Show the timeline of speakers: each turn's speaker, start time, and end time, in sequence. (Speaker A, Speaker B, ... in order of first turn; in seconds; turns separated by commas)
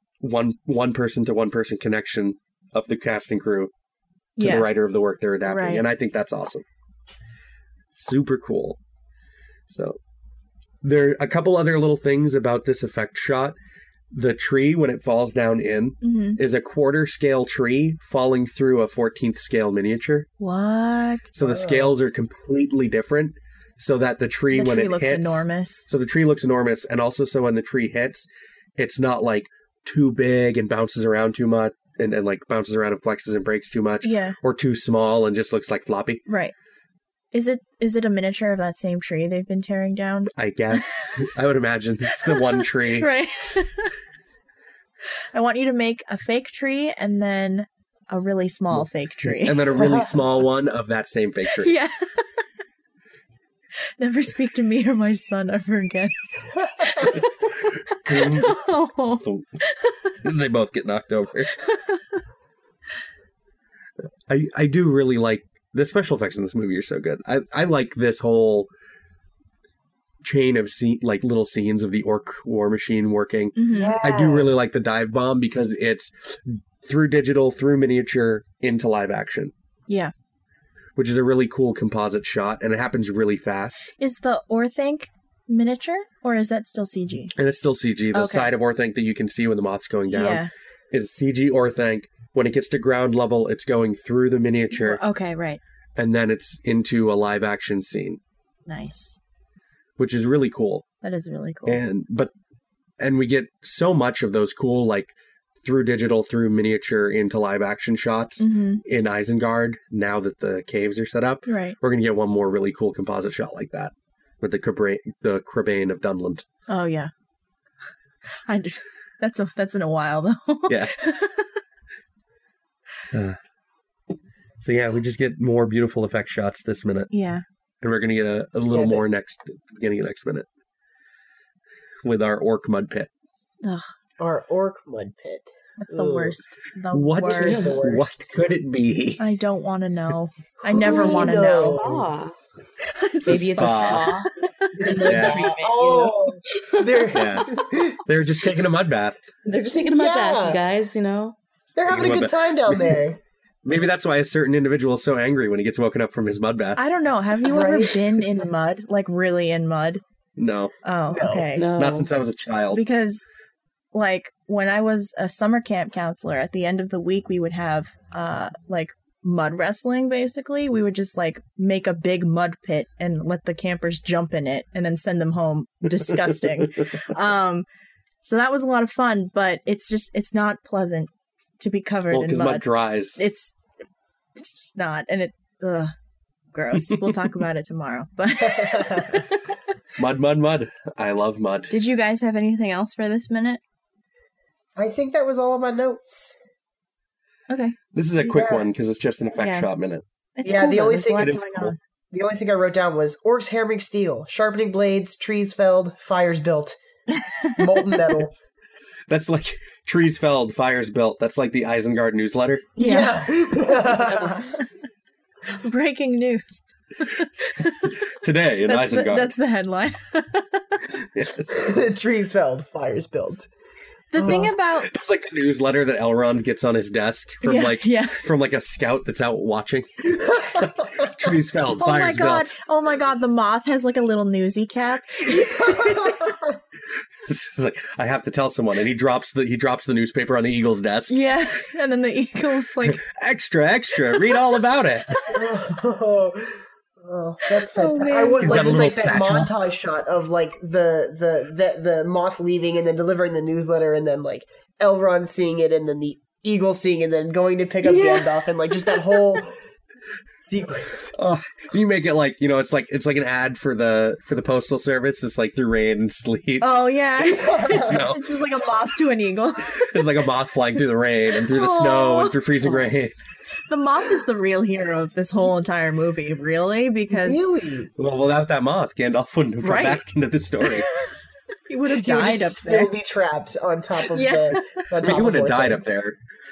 Speaker A: 0.2-3.7, Speaker B: 4.4-4.7, Speaker A: 4.4-6.7, Speaker B: 5.5-5.8, Speaker A: 7.9-8.8, Speaker A: 9.7-10.0, Speaker A: 10.8-13.6, Speaker A: 14.1-20.3, Speaker B: 16.0-16.4, Speaker B: 20.4-21.3, Speaker A: 21.3-36.2, Speaker C: 21.4-21.9, Speaker B: 24.5-25.9, Speaker B: 34.0-34.4, Speaker B: 36.3-36.5, Speaker B: 37.3-41.3, Speaker A: 40.4-43.1, Speaker B: 42.1-43.9, Speaker B: 45.3-50.0, Speaker A: 48.7-51.8, Speaker B: 51.5-52.4, Speaker B: 54.0-57.5, Speaker A: 58.0-58.5, Speaker B: 58.1-60.1, Speaker A: 59.2-59.5, Speaker A: 60.2-61.5, Speaker B: 61.6-62.0, Speaker A: 64.3-68.7, Speaker A: 70.2-79.5, Speaker B: 73.6-74.0, Speaker C: 73.7-74.5, Speaker A: 81.0-83.9, Speaker B: 83.9-87.3, Speaker A: 87.3-95.0, Speaker B: 88.1-88.5, Speaker B: 90.1-90.5, Speaker B: 94.7-95.6, Speaker A: 96.0-98.2, Speaker B: 98.7-99.2, Speaker A: 100.0-100.8, Speaker B: 101.0-101.8, Speaker A: 101.7-102.3, Speaker A: 103.0-116.5, Speaker B: 108.4-108.8, Speaker B: 111.5-111.8, Speaker B: 116.7-117.1, Speaker B: 118.5-121.6, Speaker A: 120.7-120.9, Speaker A: 123.1-123.4, Speaker A: 124.6-127.1, Speaker B: 127.1-127.4, Speaker A: 127.8-130.5, Speaker C: 128.7-129.1, Speaker A: 132.0-133.1, Speaker C: 134.2-136.4, Speaker B: 135.8-137.8, Speaker A: 136.9-139.3, Speaker C: 137.3-138.3, Speaker B: 139.2-141.8, Speaker C: 140.7-142.5, Speaker D: 140.8-142.4, Speaker B: 142.9-144.2, Speaker D: 143.2-147.1, Speaker A: 143.3-144.1, Speaker C: 144.8-148.0, Speaker A: 145.0-145.5, Speaker A: 147.1-147.5, Speaker A: 148.1-149.2, Speaker D: 149.4-151.4, Speaker C: 149.8-150.6, Speaker C: 151.7-153.2, Speaker A: 151.9-153.0, Speaker A: 153.7-156.9, Speaker B: 156.8-160.0, Speaker C: 157.5-158.0, Speaker A: 160.4-160.7, Speaker B: 160.8-161.7, Speaker C: 161.1-161.5, Speaker D: 161.5-162.1, Speaker A: 161.6-162.8, Speaker B: 162.7-163.3, Speaker B: 163.9-177.7, Speaker B: 178.2-182.7, Speaker A: 182.1-183.3, Speaker B: 183.2-183.6, Speaker B: 184.4-185.9, Speaker B: 186.5-189.4, Speaker A: 186.8-187.1, Speaker C: 188.4-189.2, Speaker A: 190.0-191.7, Speaker B: 191.7-193.6, Speaker C: 194.8-196.4, Speaker B: 197.5-198.4, Speaker A: 197.9-200.0, Speaker C: 198.3-198.7, Speaker B: 199.4-199.7, Speaker B: 200.3-201.8, Speaker C: 200.4-201.5, Speaker A: 201.2-201.8, Speaker C: 202.1-206.8, Speaker C: 207.6-208.4, Speaker A: 209.1-212.7, Speaker C: 212.8-214.4, Speaker B: 212.8-213.3, Speaker B: 214.0-214.6, Speaker B: 215.5-218.0, Speaker A: 217.9-219.3, Speaker B: 218.7-220.7, Speaker A: 221.2-221.7, Speaker C: 221.6-223.5, Speaker B: 224.1-224.9, Speaker C: 224.2-224.5, Speaker A: 224.2-232.5, Speaker B: 227.4-228.3, Speaker B: 231.7-236.2, Speaker C: 235.7-236.3, Speaker A: 237.3-241.2, Speaker B: 241.1-243.0, Speaker A: 242.8-245.1, Speaker B: 245.2-245.4, Speaker C: 245.3-246.5, Speaker C: 247.0-259.5, Speaker B: 247.7-248.7, Speaker A: 248.4-249.5, Speaker B: 257.8-259.4, Speaker C: 260.4-261.1, Speaker A: 261.1-268.3, Speaker B: 266.6-269.8, Speaker C: 267.2-268.0, Speaker A: 269.6-273.1, Speaker B: 271.4-272.9, Speaker B: 273.7-277.5, Speaker C: 277.1-277.9, Speaker A: 278.0-280.9, Speaker B: 279.6-280.0, Speaker B: 280.6-281.1, Speaker B: 281.7-282.9, Speaker C: 281.9-285.8, Speaker B: 284.1-284.8, Speaker A: 285.0-286.2